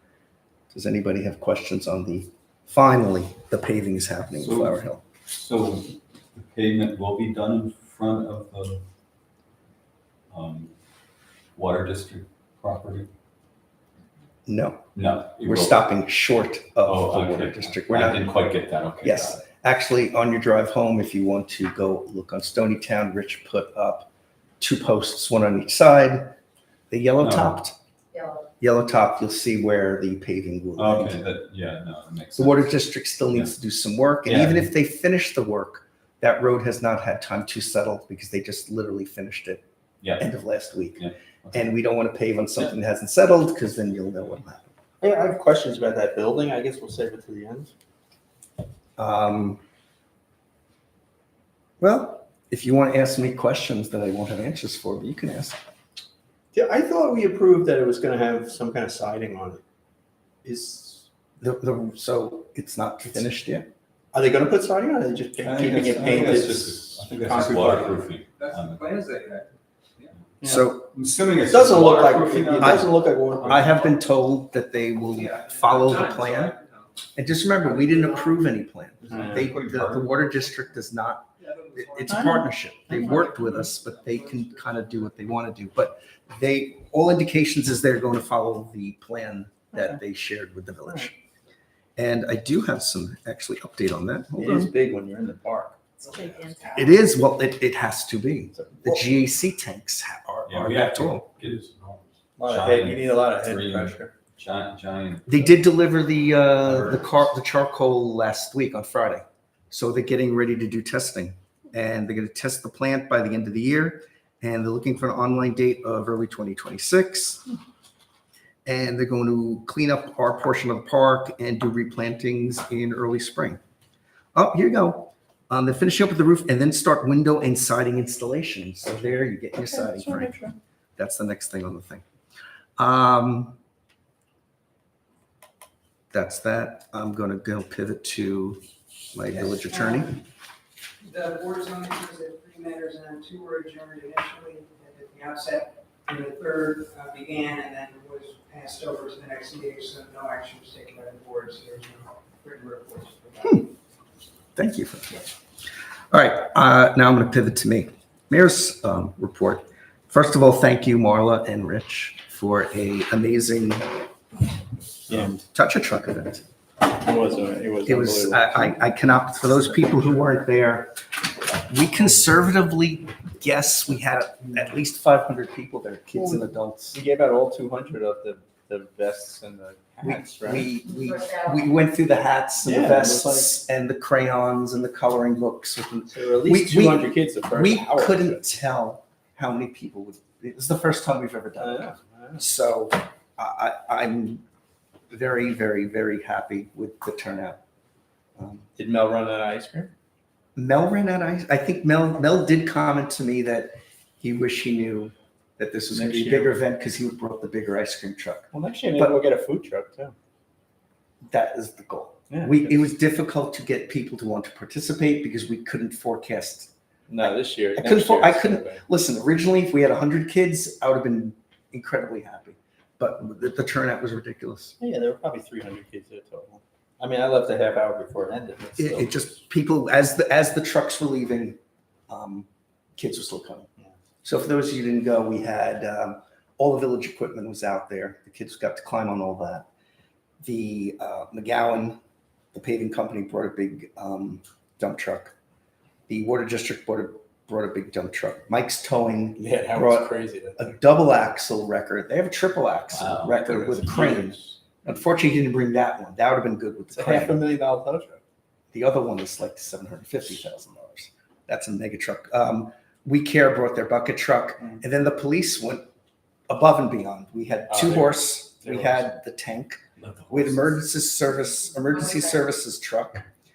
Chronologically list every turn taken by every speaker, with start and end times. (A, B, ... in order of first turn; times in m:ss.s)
0:00.7-0:05.0 A
0:04.4-0:08.8 B
0:10.3-0:10.7 B
0:11.6-0:13.1 B
0:14.5-0:14.9 A
0:15.0-0:15.8 B
0:15.4-0:18.3 A
0:16.8-0:19.4 B
0:19.0-0:26.4 A
0:26.9-0:27.8 A
0:27.2-0:27.5 B
0:28.1-0:28.4 C
0:28.6-0:31.2 A
0:30.8-0:33.5 B
0:32.4-0:39.6 A
0:34.3-0:34.6 D
0:40.0-0:40.3 B
0:40.2-0:44.7 A
0:41.0-0:41.7 B
0:45.0-0:47.7 D
0:49.0-0:49.6 A
0:51.8-0:55.6 A
0:56.5-0:59.6 D
1:00.4-1:01.0 D
1:01.4-1:03.7 A
1:04.1-1:08.0 D
1:05.5-1:06.5 A
1:05.6-1:09.0 B
1:08.4-1:09.5 E
1:10.4-1:10.9 A
1:10.5-1:13.6 B
1:11.5-1:13.6 D
1:12.4-1:12.7 E
1:13.4-1:16.6 A
1:15.2-1:16.9 E
1:17.2-1:31.2 A
1:19.1-1:20.1 B
1:19.1-1:19.4 D
1:21.4-1:22.4 E
1:22.1-1:22.4 D
1:22.9-1:24.8 E
1:29.7-1:30.0 D
1:32.0-1:34.7 A
1:34.4-1:36.8 D
1:36.1-1:36.7 C
1:36.7-1:41.3 A
1:38.5-1:39.0 D
1:40.5-1:45.6 B
1:42.4-1:44.1 D
1:45.3-1:57.5 A
1:46.6-1:47.2 B
1:58.7-2:03.6 A
2:04.4-2:10.4 A
2:09.6-2:10.6 D
2:11.0-2:12.0 A
2:12.8-2:13.6 A
2:16.1-2:18.6 A
2:19.1-2:20.2 A
2:21.0-2:33.6 F
2:34.6-2:35.3 A
2:36.1-2:43.9 A
2:45.1-2:46.5 A
2:46.8-2:48.8 D
2:47.8-2:51.0 A
2:51.5-2:57.0 A
2:56.2-2:56.4 D
2:56.9-3:00.7 D
3:00.0-3:14.4 A
3:01.0-3:01.6 C
3:02.6-3:03.6 D
3:06.1-3:08.5 D
3:11.6-3:12.4 D
3:15.1-3:17.6 A
3:18.4-3:18.7 A
3:18.8-3:19.9 D
3:20.6-3:29.2 A
3:25.9-3:26.5 D
3:28.5-3:30.1 D
3:31.3-3:36.7 A
3:32.3-3:32.8 D
3:37.1-3:38.8 D
3:37.8-3:44.8 A
3:44.8-3:49.2 D
3:48.8-3:53.7 A
3:54.2-3:59.7 A
4:00.4-4:02.0 A
4:02.5-4:05.4 A
4:06.1-4:17.4 A
4:09.4-4:10.7 D
4:12.9-4:14.0 B
4:13.4-4:14.6 D
4:17.0-4:18.2 D
4:18.7-4:25.8 A
4:26.5-4:33.3 A
4:27.7-4:29.1 D
4:30.0-4:30.6 D
4:31.9-4:32.2 C